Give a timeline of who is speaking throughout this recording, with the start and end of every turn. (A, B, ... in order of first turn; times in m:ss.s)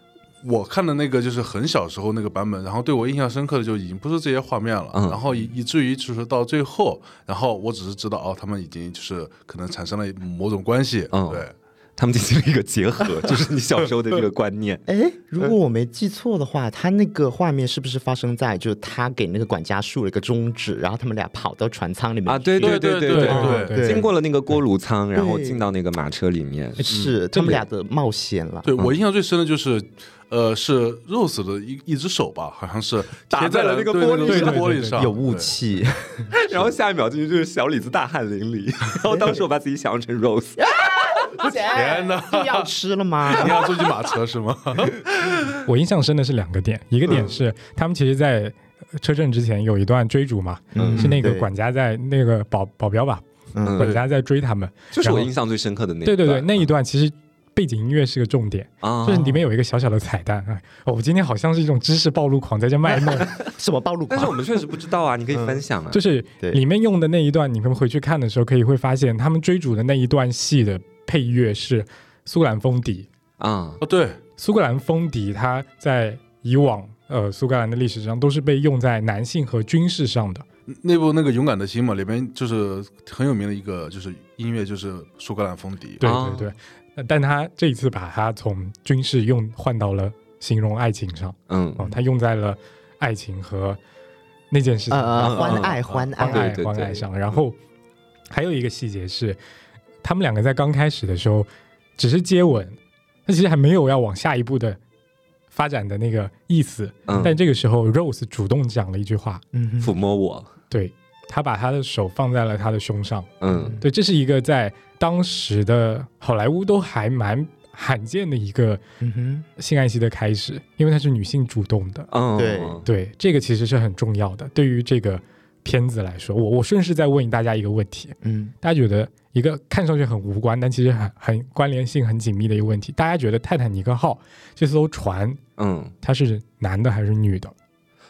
0:00.4-0:11.5 A
0:04.9-0:05.2 B
0:11.1-0:14.8 B
0:14.9-0:24.1 C
0:22.2-0:27.0 B
0:22.6-0:23.7 A
0:23.2-0:24.0 D
0:25.1-0:25.7 C
0:26.8-0:28.7 C
0:26.9-0:27.1 A
0:27.3-0:27.6 D
0:28.6-0:35.5 A
0:33.3-0:34.8 B
0:34.3-0:35.1 D
0:34.9-0:36.7 C
0:36.3-0:40.7 B
0:39.1-0:39.3 C
0:40.6-0:43.9 C
0:41.7-0:42.7 A
0:43.2-0:45.1 A
0:45.6-0:53.2 D
0:50.7-0:51.5 C
0:50.8-0:51.2 B
0:53.5-0:53.9 C
0:53.6-0:54.0 B
0:53.7-0:55.3 D
0:54.9-0:56.6 B
0:56.0-1:03.3 D
0:58.8-0:59.4 B
0:59.1-0:59.4 C
1:02.9-1:04.7 C
1:04.1-1:06.0 B
1:05.3-1:05.6 C
1:05.9-1:13.1 D
1:13.4-1:13.8 B
1:13.8-1:14.2 A
1:14.4-1:20.4 D
1:20.7-1:26.0 A
1:26.0-1:33.8 D
1:26.0-1:26.5 B
1:31.5-1:31.9 B
1:34.5-1:37.6 D
1:34.9-1:36.6 C
1:35.2-1:37.1 B
1:38.3-1:39.4 D
1:40.0-1:44.8 D
1:45.5-1:49.4 D
1:47.1-1:47.3 B
1:49.5-1:49.9 C
1:49.8-1:50.5 B
1:50.7-1:58.8 D
1:53.4-1:53.8 B
1:53.5-1:53.8 C
1:59.0-1:59.4 C
1:59.6-2:02.1 D
2:02.1-2:02.8 B
2:02.4-2:02.8 C
2:02.8-2:15.4 D
2:08.2-2:08.5 C
2:15.6-2:15.9 B
2:16.0-2:17.5 D